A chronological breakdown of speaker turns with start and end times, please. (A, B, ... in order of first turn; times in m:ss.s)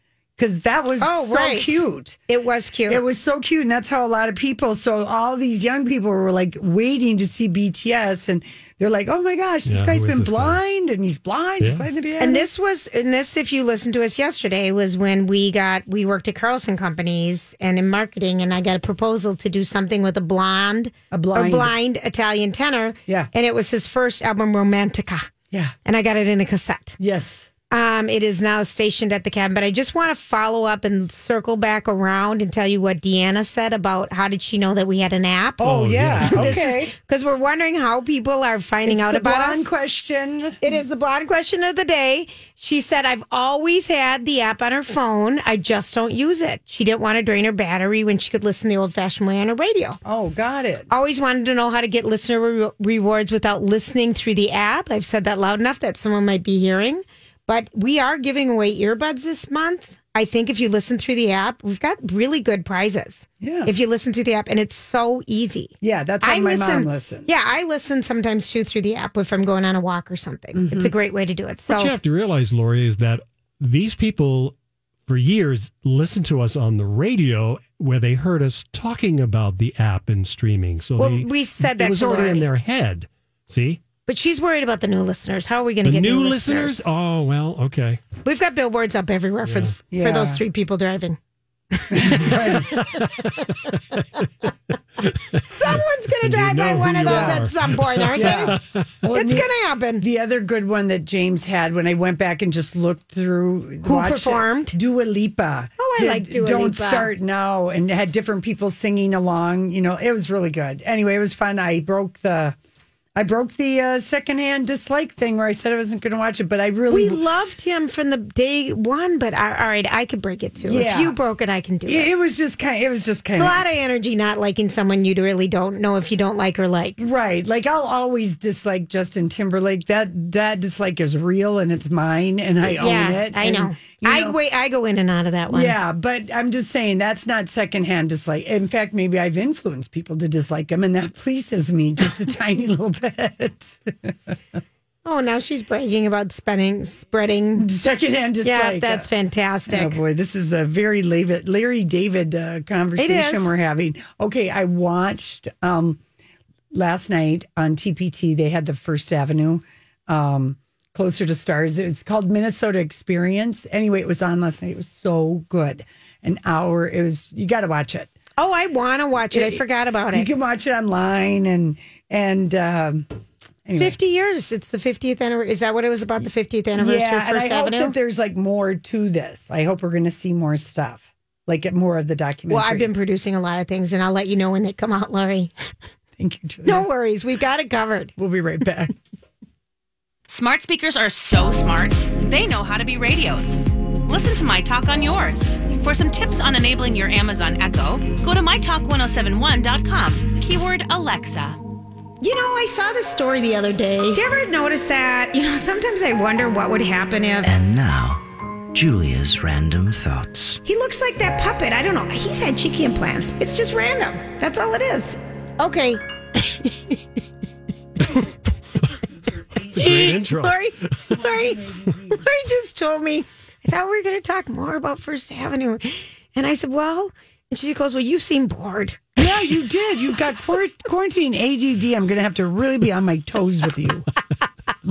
0:00.4-0:02.2 A
0:01.0-0:03.0 B
0:02.9-0:12.5 A
0:09.6-0:10.6 C
0:11.6-0:11.8 C
0:12.2-0:25.3 B
0:21.1-0:21.7 A
0:25.8-0:27.0 B
0:27.0-0:27.5 A
0:27.7-0:39.7 B
0:35.6-0:36.6 C
0:35.6-0:36.9 A
0:38.8-0:40.6 A
0:40.6-0:50.0 B
0:50.0-0:50.9 A
0:50.9-1:11.9 B
1:03.4-1:03.7 A
1:05.8-1:07.3 A
1:10.5-1:10.9 A
1:11.7-1:14.5 C
1:15.0-1:23.8 C
1:21.0-1:22.5 B
1:24.1-1:26.8 B
1:25.8-1:28.0 C
1:28.2-1:31.2 B
1:29.4-1:29.8 C
1:29.9-1:30.4 A
1:31.7-1:32.7 B
1:31.9-1:32.7 A
1:32.8-1:33.1 C
1:35.0-1:38.8 C
1:35.5-1:38.6 B
1:37.0-1:37.5 A
1:38.1-1:52.6 A
1:39.1-1:40.0 B
1:43.8-1:44.7 B
1:45.8-1:47.1 B
1:53.1-1:57.2 A
1:56.9-2:02.1 B
2:00.6-2:01.2 A
2:01.8-2:03.6 A
2:03.4-2:07.0 B
2:07.0-2:14.3 A
2:12.6-2:15.8 B
2:15.5-2:24.3 A
2:25.0-2:27.7 B
2:27.6-2:29.1 A
2:28.4-2:30.0 B
2:29.7-2:36.0 A
2:33.0-2:33.5 B
2:36.7-2:48.1 A
2:48.4-2:50.3 B
2:49.3-2:53.0 A
2:53.6-2:54.0 A
2:53.7-2:57.9 B
2:56.8-3:02.9 A
3:02.5-3:05.5 B
3:06.2-3:06.9 A
3:06.6-3:08.1 B
3:08.2-3:08.9 A
3:10.3-3:21.6 D
3:22.2-3:27.5 B
3:27.4-3:28.2 E
3:28.7-3:30.6 E
3:30.6-3:37.0 B
3:39.5-3:40.2 A
3:39.7-3:40.6 C
3:39.7-3:41.6 B
3:41.1-3:42.2 A
3:42.1-3:49.2 B
3:49.2-3:54.1 A